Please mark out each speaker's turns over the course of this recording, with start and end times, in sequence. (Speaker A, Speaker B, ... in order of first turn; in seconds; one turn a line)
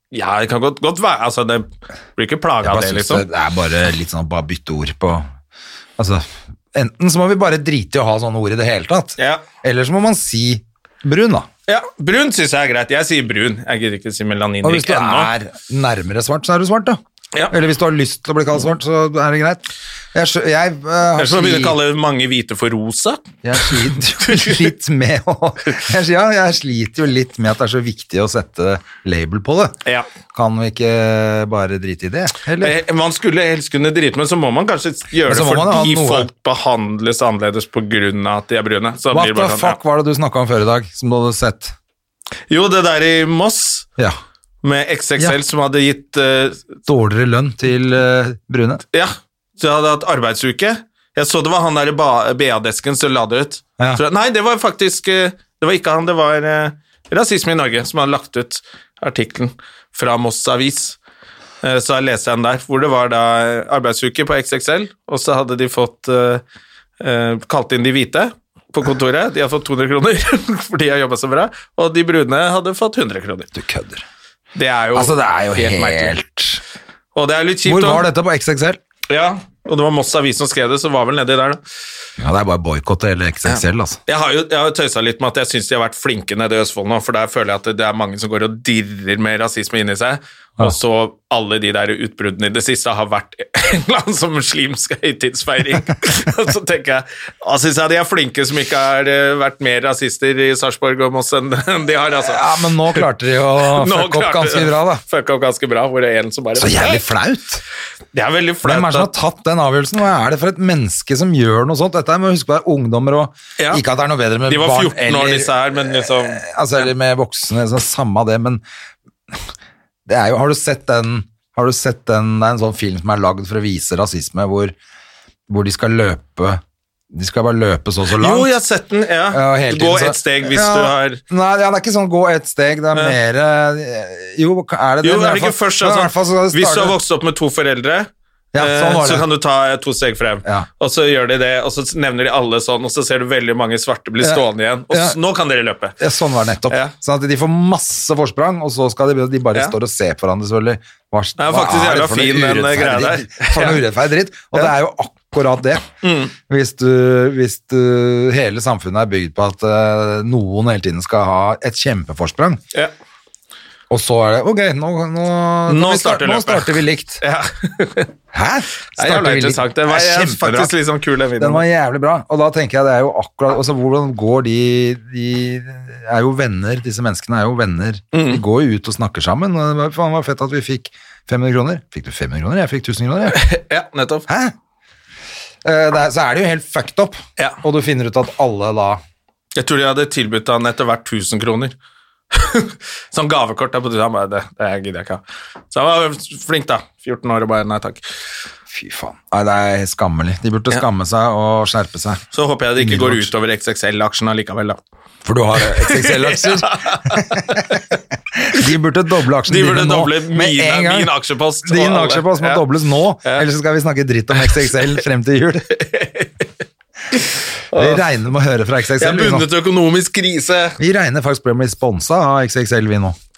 Speaker A: 0.1-3.2
Speaker B: 2.6-5.3
Speaker B: 6.0-11.5
Speaker A: 9.2-9.4
Speaker A: 11.7-15.3
Speaker B: 14.6-21.8
Speaker A: 21.1-24.7
Speaker B: 23.4-29.8
Speaker B: 30.3-32.8
Speaker A: 32.6-39.8
Speaker B: 35.2-36.3
Speaker B: 39.1-41.7
Speaker A: 42.5-43.9
Speaker A: 44.6-46.7
Speaker B: 46.9-48.8
Speaker A: 48.9-61.0
Speaker A: 61.6-66.4
Speaker A: 67.0-73.5
Speaker B: 73.5-74.0
Speaker A: 74.5-76.2
Speaker B: 74.9-76.6
Speaker A: 77.1-78.0
Speaker B: 77.6-78.8
Speaker A: 79.1-81.6
Speaker B: 82.2-84.0
Speaker A: 83.5-103.0
Speaker B: 102.2-105.0
Speaker A: 103.6-107.0
Speaker B: 106.5-107.6
Speaker A: 108.1-109.1
Speaker B: 108.6-118.6
Speaker A: 114.5-116.4
Speaker B: 120.1-124.7
Speaker B: 125.5-126.6
Speaker B: 127.1-128.5
Speaker A: 128.1-131.2
Speaker B: 129.3-136.9
Speaker A: 135.0-146.0
Speaker B: 138.5-139.3
Speaker B: 144.2-145.2
Speaker B: 146.0-155.9
Speaker A: 146.7-146.9
Speaker A: 151.4-153.8
Speaker A: 156.0-156.3
Speaker B: 156.4-162.6
Speaker B: 163.9-167.2
Speaker A: 165.7-168.1
Speaker B: 168.3-170.7
Speaker A: 168.9-171.6
Speaker B: 171.4-183.4
Speaker A: 178.1-178.4
Speaker A: 183.3-184.3
Speaker B: 184.3-184.5
Speaker B: 185.6-189.0
Speaker A: 189.5-191.7
Speaker A: 192.3-198.0
Speaker B: 198.7-202.2
Speaker A: 202.3-204.8
Speaker B: 202.8-203.3
Speaker B: 205.2-207.6
Speaker A: 205.6-208.0
Speaker B: 208.3-211.1
Speaker A: 209.4-212.6
Speaker B: 211.6-215.7
Speaker A: 214.3-214.6
Speaker A: 215.7-216.5
Speaker A: 217.1-218.1
Speaker B: 217.7-219.5
Speaker A: 219.0-220.8
Speaker B: 220.8-223.1